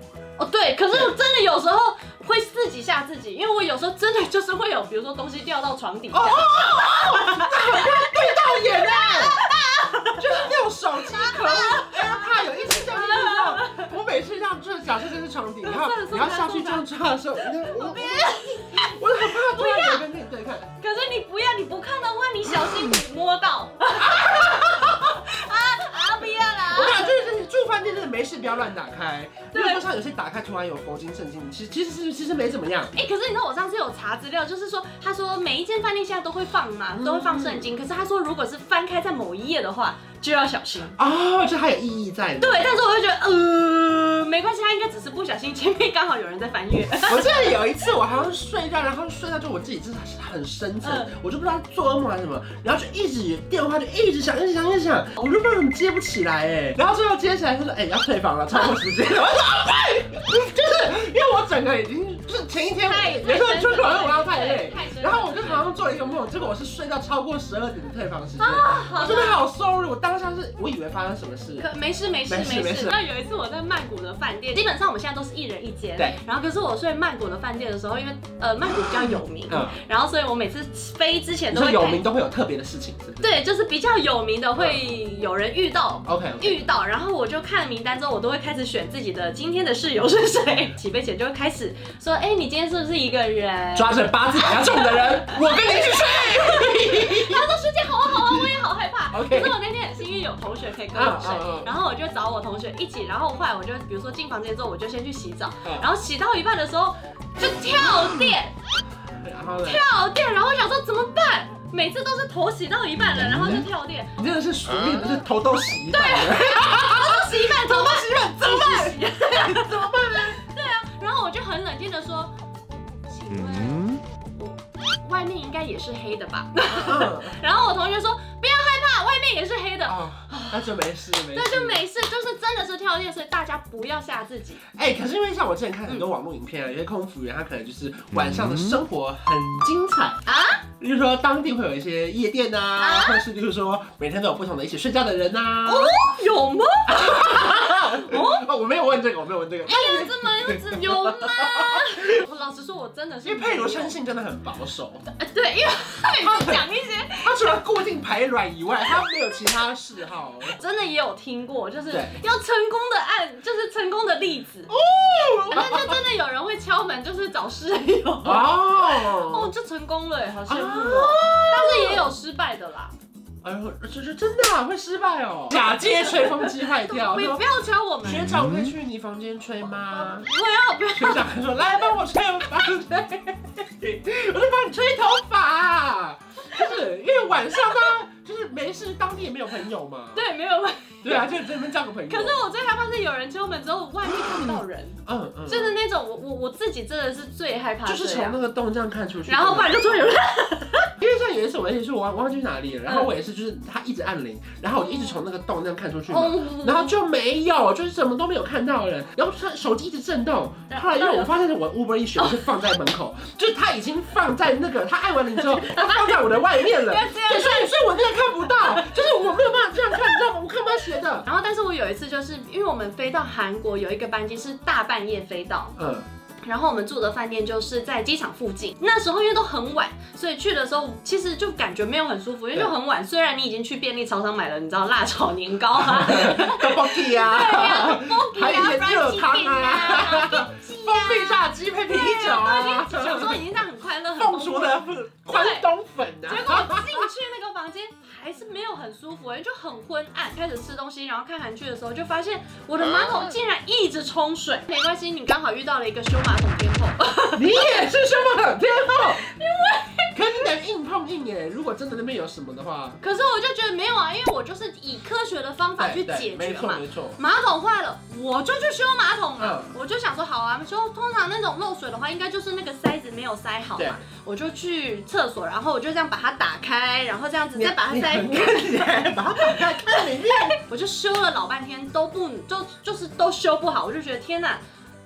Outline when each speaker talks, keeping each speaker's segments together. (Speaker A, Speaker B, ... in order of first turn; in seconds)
Speaker A: 0.4-13.9, 15.6-16.9, 17.4-20.1, 20.8-27.2, 29.5-29.8, 32.9-41.0, 42.4-48.0, 50.8-51.1, 62.8-65.7, 68.4-69.5, 71.6-82.0, 83.2-108.5, 109.6-114.1, 115.9-122.3, 123.1-130.8, 131.3-134.6, 140.2-140.7, 142.8-143.2, 145.7-148.5, 149.7-154.0, 155.1-157.6, 160.6-164.7, 165.5-172.9, 175.5-178.5, 179.8-181.8, 187.6-187.9, 190.1-191.4, 192.1-198.4, 199.3-200.9, 202.9-203.1, 206.1-207.0, 210.7-211.4, 212.2-212.4, 215.4-219.2, 221.2-225.8, 226.4-245.7, 246.2-257.9, 258.7-260.5, 263.0-284.6
Speaker B: 6.1-9.5, 10.2-20.7, 24.0-25.1, 26.7-33.0, 37.0-37.7, 41.0-42.8, 47.1-71.7, 72.3-73.0, 79.5-79.8, 81.5-83.3, 86.0-86.7, 93.8-97.5, 98.2-98.5, 99.1-99.6, 100.9-101.7, 109.2-109.8, 113.1-120.4, 123.8-124.0, 126.7-127.4, 129.8-131.8, 134.7-140.2, 140.8-146.0, 146.9-152.2, 153.2-155.1, 156.2-156.6, 157.2-160.6, 161.9-162.2, 164.7-166.0, 168.2-169.5, 170.5-172.1, 173.4-177.5, 178.0-180.3, 180.9-190.2, 191.0-192.4, 195.1-195.8, 197.8-200.1, 201.0-221.3, 225.8-226.1, 235.9-243.4, 244.2-247.1, 253.0-253.3, 257.3-259.2, 260.1-263.0, 265.8-267.2, 269.4-269.8, 277.6-280.6